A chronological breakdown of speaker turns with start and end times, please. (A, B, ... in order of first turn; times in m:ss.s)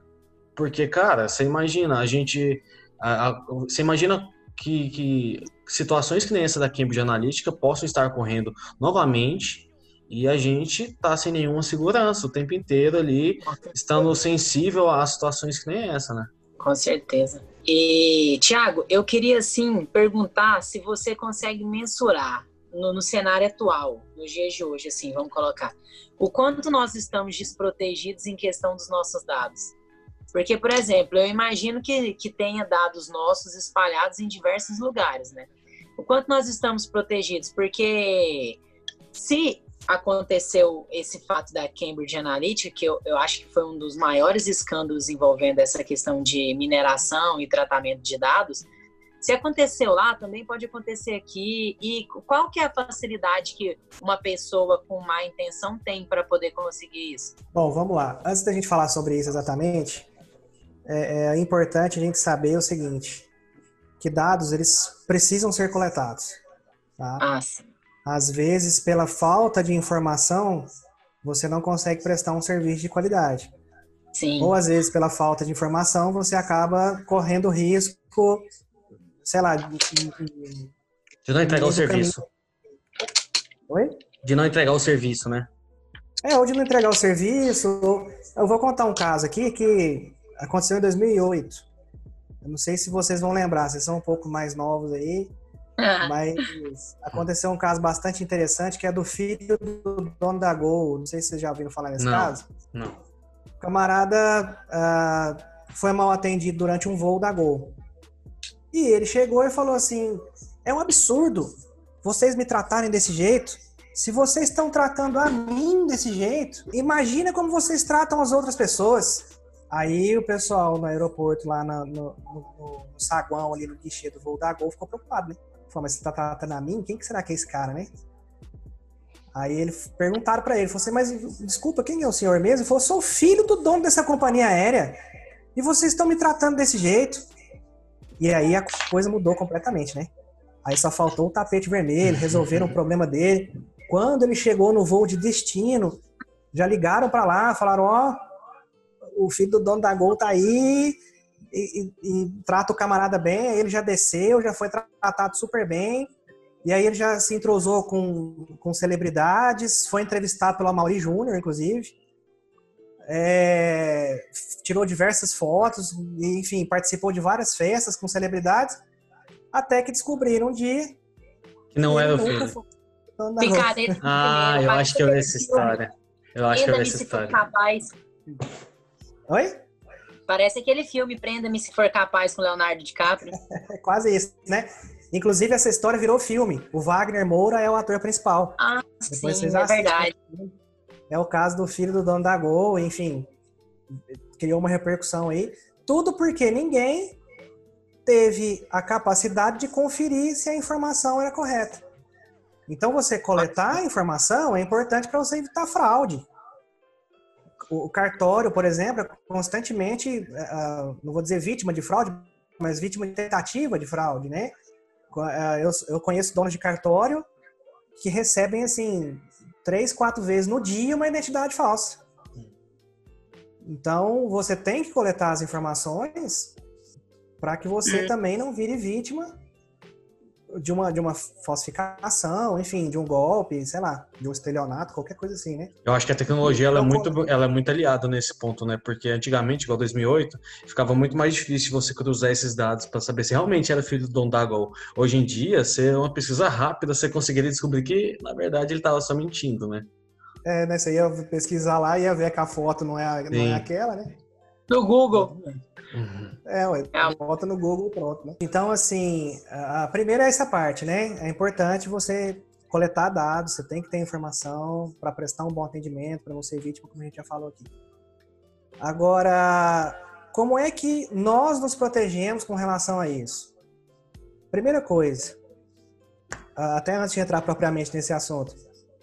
0:00.6-0:16.3 A
0:16.6-0:29.7 B
0:30.3-0:38.6 B
0:39.1-0:48.7 B
0:49.2-0:57.3 B
0:57.5-1:00.1 C
1:00.8-1:03.3 C
1:04.0-1:06.4 C
1:07.0-1:07.2 C
1:07.2-1:07.6 B
1:08.0-1:10.7 C
1:11.2-1:13.5 C
1:14.1-1:14.5 B
1:14.4-1:18.4 C
1:19.2-1:20.7 C
1:21.2-1:22.2 A
1:21.4-1:22.2 C
1:23.7-1:24.0 C
1:24.2-1:25.5 A
1:26.2-1:31.6 C
1:32.4-1:35.3 C
1:35.8-1:36.5 B
1:36.0-1:42.5 C
1:42.0-1:43.0 A
1:43.6-1:47.8 C
1:48.7-2:07.9 C
2:09.3-2:15.0 C
2:15.5-2:17.2 C
2:18.2-2:20.1 C
2:20.6-2:26.0 C
2:22.1-2:22.7 A
2:26.5-2:28.2 C
2:29.0-2:31.0 C
2:31.5-2:36.1 C
2:36.6-2:41.9 C
2:43.0-2:48.7 C
2:49.5-2:51.0 C
2:51.7-2:52.6 A
2:51.8-2:52.6 C
2:53.2-2:53.9 C
2:53.4-2:55.8 B
2:54.0-2:57.4 A
2:56.5-2:57.9 B
2:59.3-2:59.6 C
3:00.3-3:03.4 B
3:03.5-3:08.6 C
3:08.6-3:10.1 B
3:09.1-3:10.6 C
3:11.1-3:13.3 C
3:14.1-3:17.2 C
3:18.0-3:21.8 C
3:22.7-3:26.3 C
3:27.7-3:34.5 C
3:35.1-3:37.3 C
3:38.0-3:42.0 C
3:43.6-3:46.5 C
3:47.4-3:49.3 C
3:47.8-3:48.1 B
3:50.5-3:55.7 C
3:55.8-4:09.9 A
3:56.4-3:57.2 C
4:10.4-4:14.1 C
4:13.3-4:13.7 A
4:14.7-4:15.3 B
4:15.1-4:15.6 C
4:15.9-4:16.4 A
4:16.4-4:27.7 C
4:28.8-4:33.5 C
4:34.5-4:35.4 C
4:36.6-4:38.6 C